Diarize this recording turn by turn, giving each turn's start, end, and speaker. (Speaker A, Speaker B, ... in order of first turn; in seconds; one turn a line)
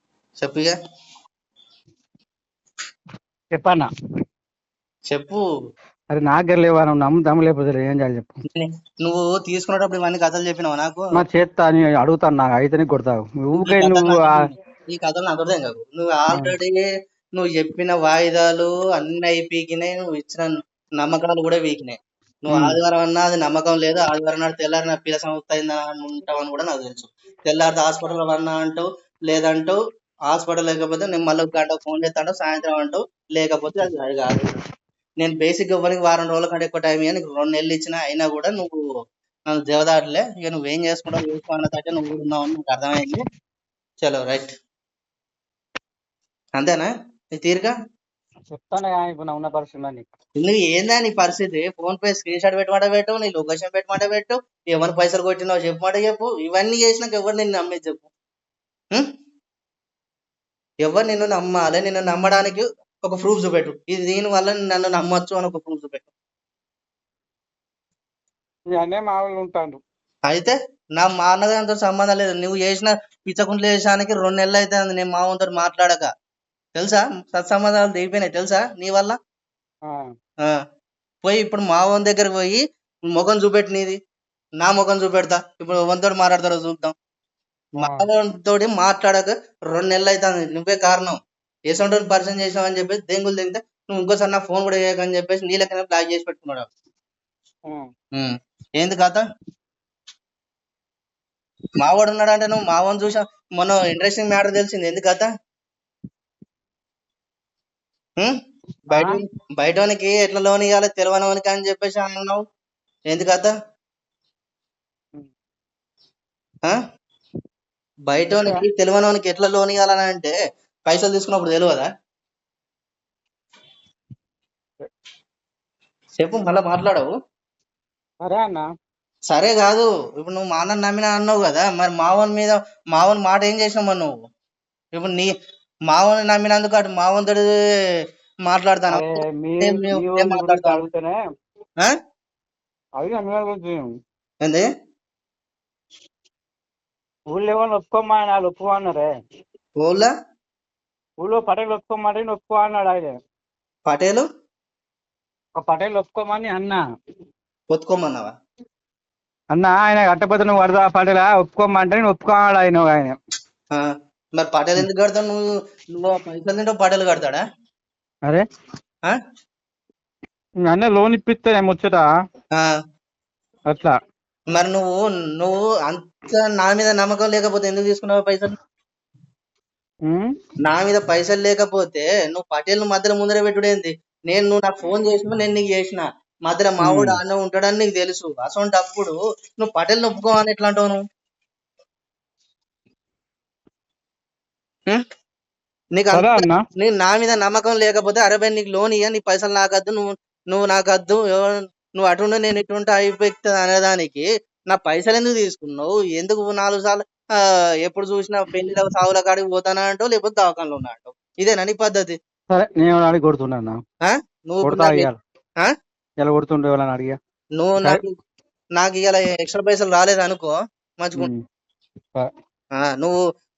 Speaker A: 0.4-0.7
Speaker B: 3.5-3.9
Speaker A: 5.1-5.4
Speaker B: 6.1-8.3
Speaker A: 8.6-11.1
Speaker B: 11.2-14.4
Speaker A: 13.5-16.8
Speaker A: 17.4-29.8
Speaker B: 22.5-22.8
Speaker A: 30.3-34.5
Speaker A: 35.2-38.8
Speaker A: 39.5-43.2
Speaker A: 44.0-44.5
Speaker A: 46.6-47.7
Speaker B: 48.5-50.0
Speaker A: 50.4-58.1
Speaker A: 60.8-66.1
Speaker B: 68.7-69.8
Speaker A: 70.3-76.1
Speaker A: 76.8-79.2
Speaker A: 81.2-82.6
Speaker A: 83.1-84.0
Speaker A: 84.6-86.9
Speaker B: 87.8-88.0
Speaker A: 87.8-91.2
Speaker A: 91.7-96.7
Speaker A: 98.2-99.2
Speaker A: 101.8-105.3
Speaker A: 108.9-112.4
Speaker B: 108.9-109.2
Speaker A: 113.1-113.5
Speaker A: 118.1-120.3
Speaker B: 118.3-118.6
Speaker A: 120.9-121.9
Speaker A: 126.2-127.1
Speaker B: 128.2-128.6
Speaker A: 129.3-134.1
Speaker A: 134.9-135.3
Speaker A: 135.9-137.5
Speaker A: 138.5-139.1
Speaker B: 138.9-141.2
Speaker A: 139.6-140.8
Speaker B: 143.0-143.9
Speaker B: 147.3-149.1
Speaker A: 149.8-150.1
Speaker B: 151.2-153.1
Speaker A: 153.8-154.2
Speaker B: 155.6-156.8
Speaker A: 157.7-158.3
Speaker B: 159.5-163.2
Speaker A: 163.7-165.4
Speaker A: 165.9-167.4
Speaker B: 170.7-172.1
Speaker B: 173.7-173.9
Speaker A: 174.5-178.5
Speaker A: 180.7-191.0
Speaker B: 186.8-187.2
Speaker A: 195.9-207.3
Speaker B: 196.1-196.6
Speaker A: 207.8-212.2
Speaker B: 212.5-213.8
Speaker A: 214.0-215.1
Speaker B: 214.6-215.2
Speaker B: 216.2-217.2
Speaker A: 217.6-218.1
Speaker A: 218.8-221.3
Speaker A: 222.8-223.2